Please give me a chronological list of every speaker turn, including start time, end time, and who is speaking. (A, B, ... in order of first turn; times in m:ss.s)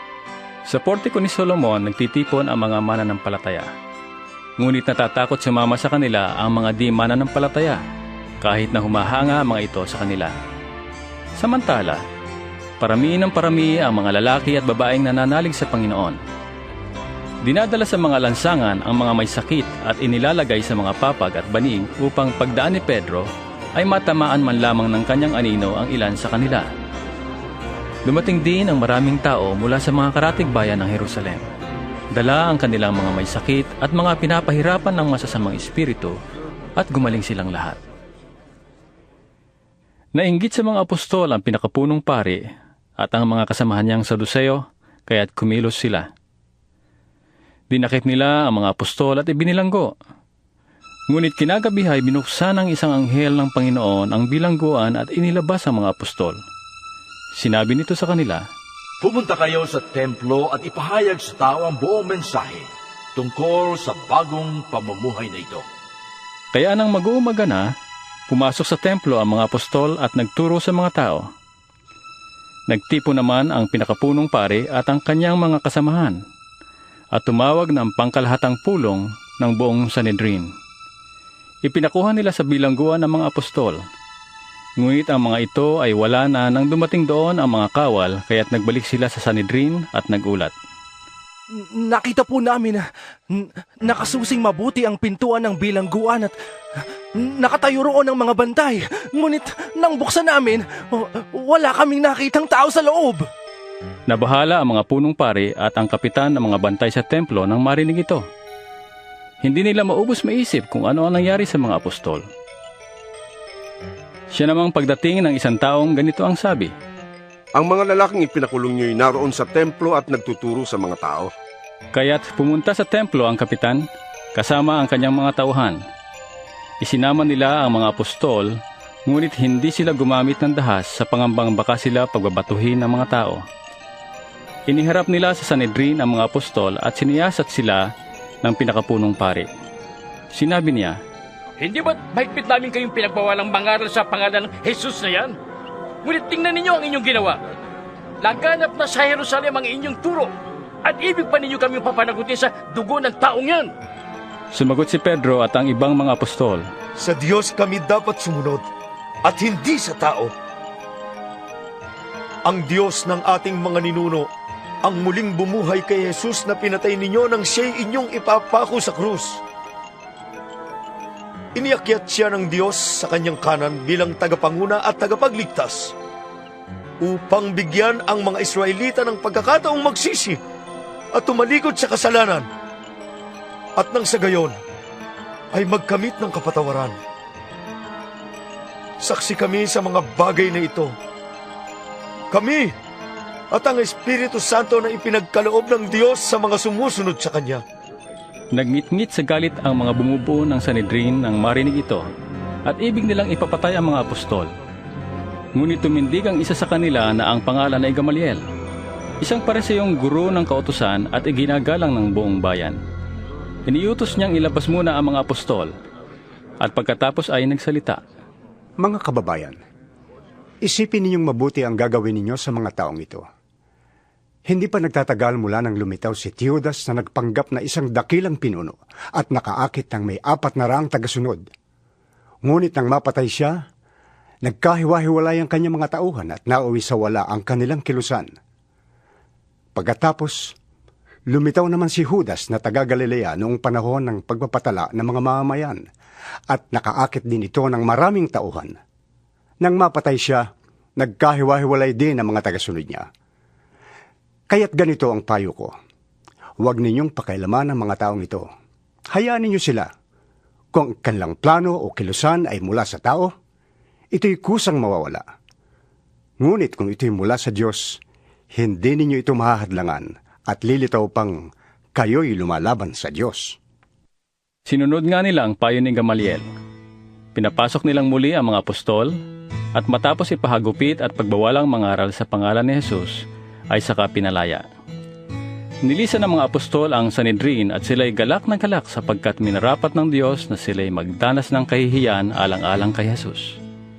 0:00.7-0:03.7 A
0:04.6-0:07.8 A
0:08.4-0:10.3 A
0:11.4-0:12.0 A
0:12.8-0:16.2 A
0:17.4-0:26.7 A
0:28.1-0:31.4 A
0:32.1-0:36.2 A
0:36.8-0:37.8 A
0:40.2-0:42.4 A
0:43.0-0:46.1 A
0:47.7-0:49.9 A
0:51.1-0:56.4 A
0:57.4-0:58.4 A
0:59.0-1:05.6 B
1:06.5-1:07.7 A
1:08.3-1:11.3 A
1:12.7-1:16.2 A
1:17.2-1:20.5 A
1:21.6-1:23.8 A
1:24.8-1:30.5 A
1:31.6-1:36.3 C
1:37.2-1:43.3 C
1:44.1-1:48.2 A
1:49.4-1:52.2 A
1:54.3-1:56.7 A
1:57.6-2:01.3 D
2:01.9-2:05.8 A
2:06.8-2:08.5 A
2:09.1-2:13.4 A
2:14.7-2:17.9 A
2:18.4-2:19.5 A
2:20.3-2:21.0 A
2:21.6-2:25.4 E
2:26.0-2:27.4 E
2:28.2-2:30.3 E
2:30.8-2:33.7 E
2:34.5-2:36.6 A
2:37.0-2:38.6 F
2:39.2-2:40.3 F
2:42.4-2:44.3 F
2:44.8-2:49.4 F
2:51.6-2:55.9 F
2:57.0-3:00.4 F
3:01.1-3:02.5 F
3:03.8-3:04.6 F
3:05.5-3:07.0 F
3:09.0-3:10.9 F
3:12.3-3:12.7 F
3:13.5-3:17.6 F
3:18.6-3:22.0 A
3:22.7-3:24.5 A
3:25.6-3:28.4 A
3:29.2-3:32.8 A
3:33.7-3:35.7 A
3:36.6-3:38.0 A
3:38.8-3:39.6 G
3:40.6-3:43.2 G
3:44.5-3:51.4 G
3:52.5-3:53.6 G
3:54.5-3:58.3 G
3:59.8-4:00.6 G
4:01.3-4:05.8 G
4:06.5-4:08.7 G
4:09.6-4:10.4 G
4:11.0-4:13.1 G
4:14.5-4:15.7 G
4:16.6-4:18.5 G
4:19.1-4:19.9 G
4:20.7-4:23.3 G
4:24.1-4:25.2 G
4:26.4-4:28.0 G
4:28.6-4:31.4 G
4:32.0-4:33.6 G
4:34.7-4:36.5 A
4:37.4-4:39.1 A
4:39.8-4:43.2 A
4:43.7-4:44.6 A
4:45.8-4:53.6 A